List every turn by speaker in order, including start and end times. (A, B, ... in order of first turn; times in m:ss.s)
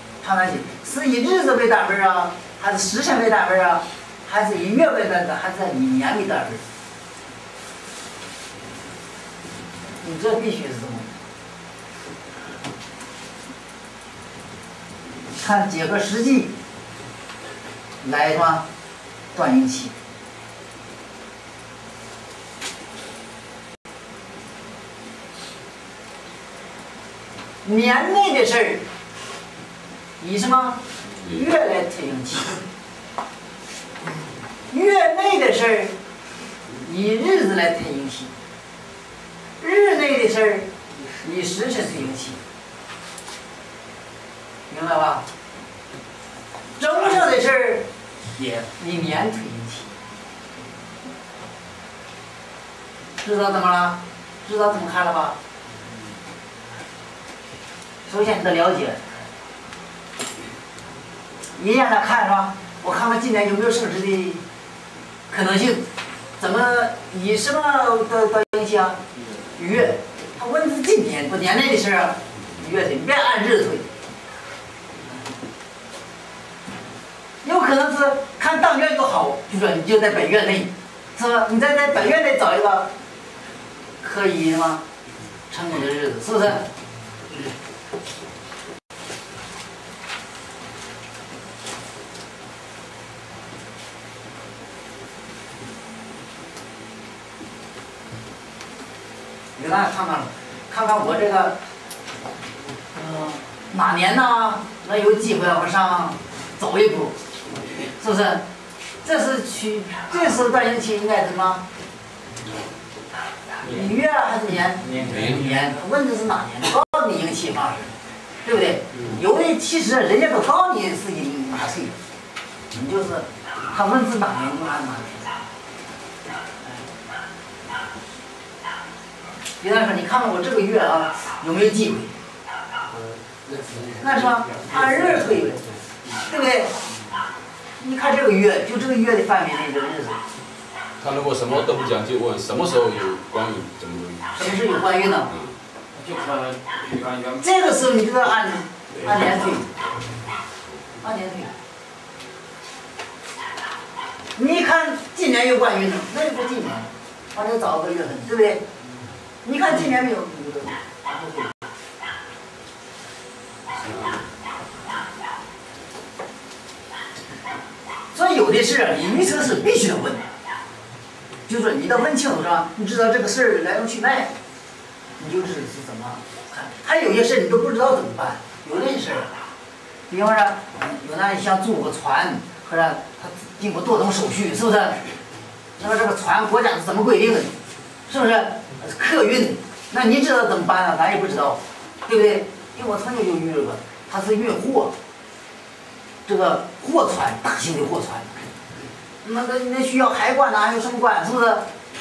0:00.2-0:06.6 A
0:10.0-0:11.1 A
0:15.4-0:16.5 A
0:18.0-0:18.7 A
0:19.3-0:20.0 A
0:27.6-0:28.8 A
0:30.2-0:32.5 A
0:34.7-0:36.0 A
0:36.8-0:38.3 A
0:39.6-0:42.4 A
0:44.7-0:45.2 A
0:46.8-0:47.9 A
0:48.8-0:49.9 A
0:53.2-0:55.4 A
0:58.1-0:59.0 A
1:01.6-1:04.4 A
1:05.3-1:05.9 A
1:06.4-1:09.0 A
1:09.6-1:13.9 A
1:17.4-1:22.9 A
1:24.0-1:24.8 A
1:25.5-1:26.7 A
1:39.6-1:41.6 A
1:42.9-1:47.2 A
1:48.0-1:48.4 A
1:49.0-1:51.6 A
1:53.6-1:57.9 A
1:54.8-1:55.3 B
1:55.0-1:55.4 C
1:58.4-2:02.0 A
2:02.7-2:05.3 A
2:09.6-2:12.1 A
2:14.0-2:16.7 A
2:17.8-2:20.2 A
2:21.0-2:24.6 C
2:24.3-2:25.3 A
2:25.3-2:25.5 C
2:25.9-2:27.5 B
2:27.4-2:29.7 A
2:31.0-2:31.5 A
2:34.4-2:38.6 A
2:39.4-2:41.6 A
2:43.8-2:44.2 C
2:48.1-2:50.2 A
2:51.5-2:54.3 A
2:55.2-2:59.4 A
3:00.1-3:05.0 A
3:05.8-3:07.5 A
3:08.1-3:14.9 A
3:16.3-3:18.4 A
3:19.2-3:21.7 A